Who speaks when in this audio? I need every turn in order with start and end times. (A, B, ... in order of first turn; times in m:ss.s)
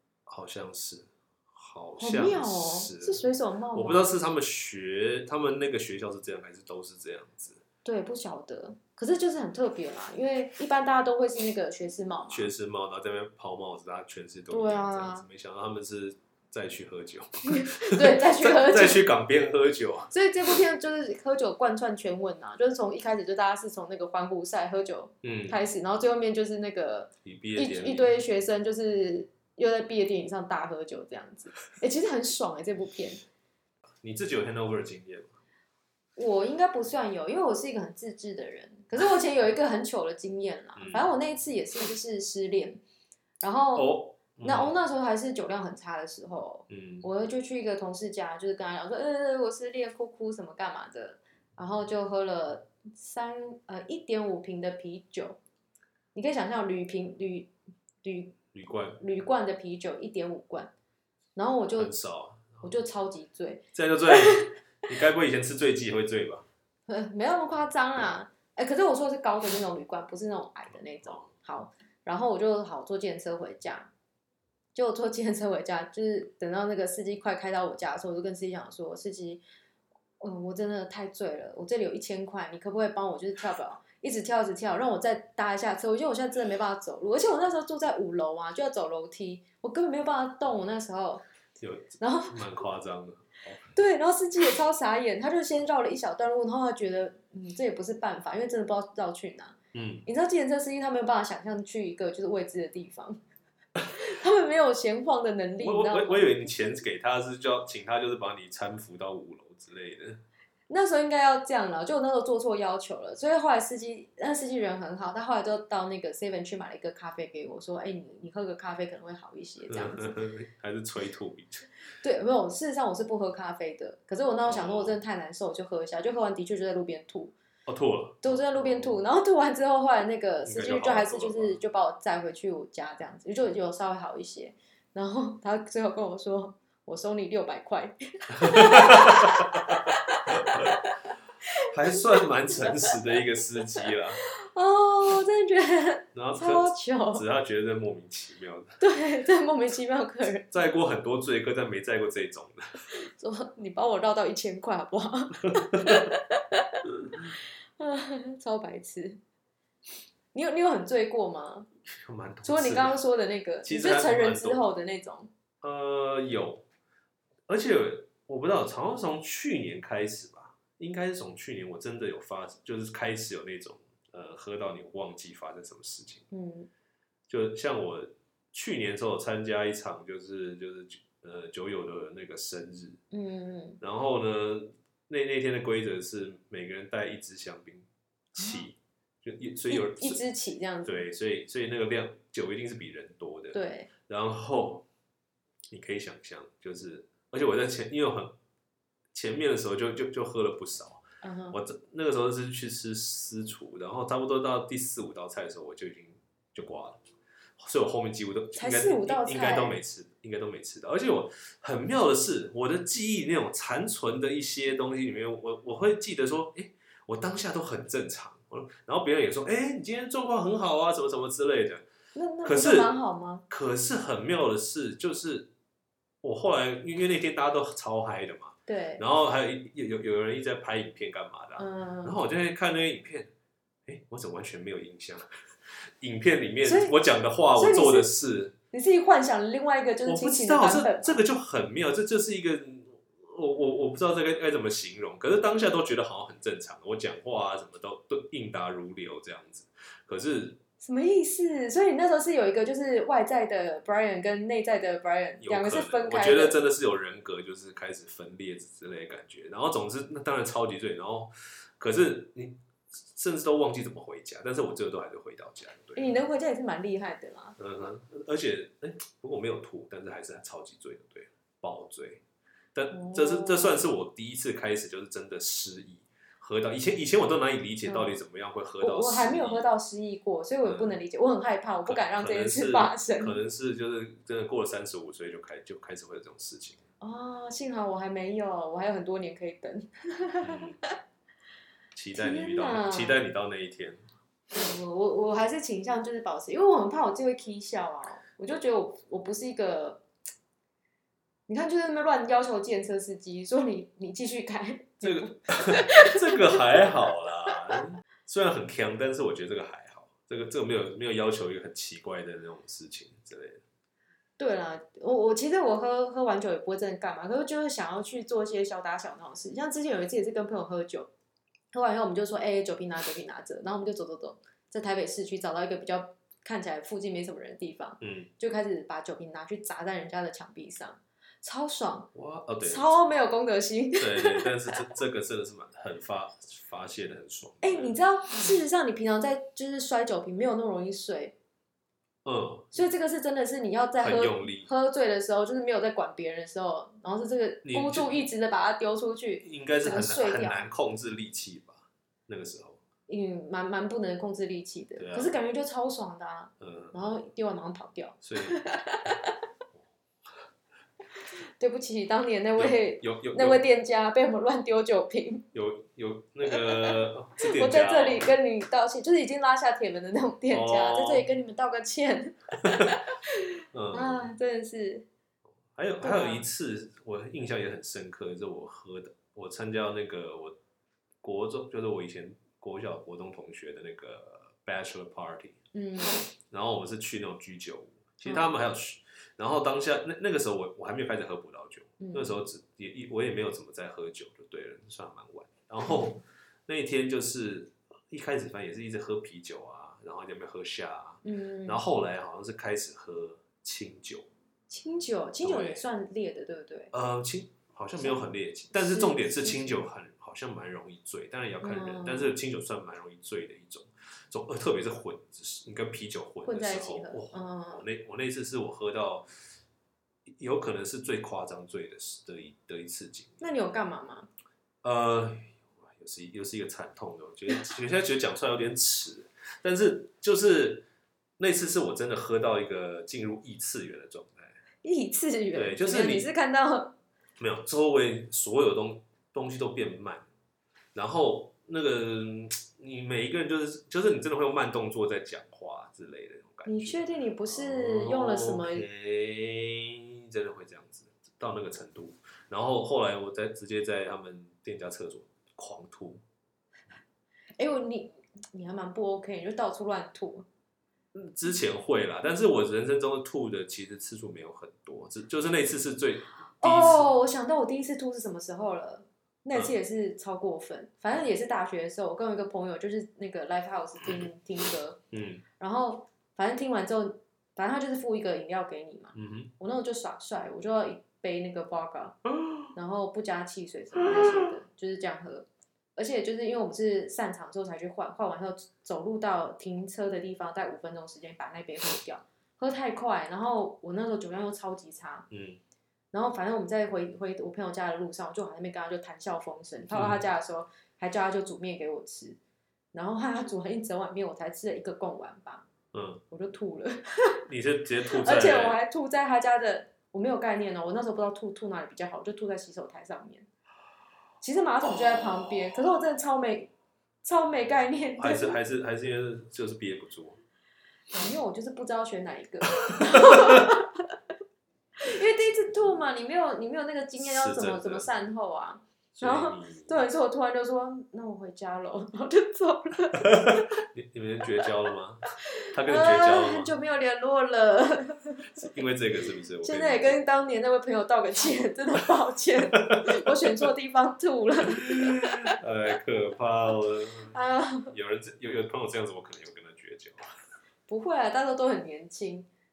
0:00.3-0:07.6 A
0:02.0-0:04.1 B
0:07.8-0:12.5 B
0:12.3-0:20.1 A
0:14.5-0:15.2 B
0:17.5-0:19.0 B
0:20.1-0:33.2 B
0:25.2-0:25.6 A
0:27.2-0:28.2 A
0:34.0-0:35.4 A
0:36.2-0:42.8 B
0:40.8-0:41.1 A
0:43.4-0:55.4 B
0:43.7-0:44.7 A
0:46.7-0:47.0 A
0:56.1-0:57.5 B
0:58.0-0:58.4 B
0:58.5-0:59.0 A
0:59.0-1:00.7 B
1:01.4-1:01.9 B
1:01.8-1:02.7 A
1:02.6-1:04.6 B
1:03.7-1:06.4 A
1:06.9-1:13.9 B
1:14.7-1:19.4 B
1:20.2-1:31.2 B
1:31.6-1:33.7 A
1:32.0-1:32.5 B
1:33.7-1:43.2 B
1:39.7-1:40.0 A
1:43.9-1:46.8 B
1:45.6-1:50.2 A
1:50.7-2:00.1 B
1:59.7-2:01.7 A
2:02.0-2:07.3 B
2:04.4-2:05.0 A
2:07.7-2:09.0 A
2:08.2-2:20.9 B
2:10.4-2:11.6 A
2:18.4-2:20.8 A
2:21.6-2:24.2 A
2:21.9-2:23.0 B
2:23.7-2:27.2 B
2:26.1-2:28.8 A
2:28.8-2:30.6 B
2:30.5-2:32.7 A
2:32.9-2:37.3 B
2:35.7-2:36.1 A
2:37.8-2:39.2 B
2:40.3-2:41.7 B
2:41.9-2:43.0 A
2:42.4-2:45.3 B
2:43.6-2:44.6 A
2:45.6-2:46.6 A
2:47.5-2:56.2 A
2:56.3-2:56.7 B
2:57.3-3:03.0 A
3:03.1-3:03.8 B
3:03.8-3:10.2 A
3:09.7-3:11.0 B
3:10.8-3:14.8 A
3:13.5-3:13.9 B
3:15.7-3:18.3 A
3:19.1-3:27.0 A
3:21.2-3:21.6 B
3:27.6-3:41.8 A
3:28.5-3:29.8 B
3:42.1-3:43.4 B
3:42.4-3:42.9 A
3:43.5-3:45.5 A
3:46.2-3:53.3 A
3:48.7-3:49.0 B
3:51.6-3:52.2 B
3:53.8-3:58.5 A
3:56.6-3:56.9 B
3:57.5-3:58.1 B
3:58.7-4:01.2 B
4:00.0-4:10.6 A
4:10.8-4:16.6 B
4:15.4-4:26.2 A
4:25.9-4:27.6 B
4:27.6-4:32.2 A
4:32.7-4:39.6 A
4:32.9-4:33.8 B
4:37.8-4:38.2 B
4:38.8-4:43.4 B
4:40.6-4:41.0 A
4:41.8-4:46.8 A
4:47.0-4:51.0 B
4:50.4-4:50.7 A
4:51.9-4:54.0 A
4:52.1-4:53.2 B
4:54.5-5:00.0 B
5:01.5-5:06.9 B
5:05.0-5:13.6 A
5:14.4-5:21.1 B
5:21.7-5:32.1 B
5:28.0-5:28.3 A
5:32.1-5:32.9 A
5:32.6-5:34.7 B
5:34.0-5:38.0 A
5:37.6-5:41.3 B
5:42.2-5:42.7 A
5:42.7-5:50.6 B
5:44.0-5:44.7 A
5:47.6-5:48.2 A
5:49.4-5:52.8 A
5:53.1-5:59.4 B
5:55.0-5:55.4 A
5:56.6-5:57.1 A
5:58.2-5:58.6 A
6:01.6-6:05.4 B
6:02.6-6:03.6 A
6:05.5-6:08.2 A
6:06.5-6:15.0 B
6:10.5-6:11.2 A
6:13.7-6:14.3 A
6:15.7-6:20.6 A
6:16.0-6:16.4 B
6:21.2-6:25.6 A
6:25.7-6:26.2 B
6:26.5-6:44.3 A
6:32.0-6:32.4 B
6:41.2-6:41.8 B
6:44.7-6:46.9 B
6:45.4-6:45.8 A
6:46.9-6:59.3 A
6:48.0-6:49.8 B
6:51.6-6:52.3 B
6:56.4-6:57.8 B
7:00.3-7:03.4 A
7:03.4-7:04.3 B
7:04.8-7:10.8 A
7:11.4-7:14.6 A
7:14.8-7:16.9 B
7:15.5-7:16.2 A
7:17.4-7:20.2 A
7:20.9-7:36.2 A
7:26.6-7:28.9 B
7:37.6-7:40.4 B
7:41.1-7:47.1 A
7:46.6-7:55.0 B
7:55.1-7:55.4 A
7:55.6-8:02.2 B
7:59.1-7:59.5 A
8:02.4-8:02.7 A
8:02.7-8:15.3 B
8:04.0-8:04.5 A
8:15.3-8:15.6 A
8:16.1-8:22.4 B
8:19.9-8:20.2 A
8:22.9-8:25.6 B
8:25.9-8:26.2 A
8:26.3-8:27.4 B
8:27.4-8:28.8 A
8:28.1-8:33.5 B
8:34.4-8:36.7 B
8:35.0-8:35.5 A
8:37.2-8:38.6 B
8:38.2-8:40.4 A
8:41.1-8:44.1 B
8:42.9-8:43.6 A
8:45.0-8:53.7 B
8:47.2-8:48.1 A
8:49.1-8:50.0 A
8:53.3-8:55.2 A
8:55.6-8:58.6 B
8:55.7-8:56.7 A
8:58.5-9:00.2 A
8:59.6-9:05.5 B
9:02.9-9:03.4 A
9:04.8-9:07.4 A
9:07.3-9:07.9 B
9:07.9-9:10.3 A
9:10.9-9:12.5 B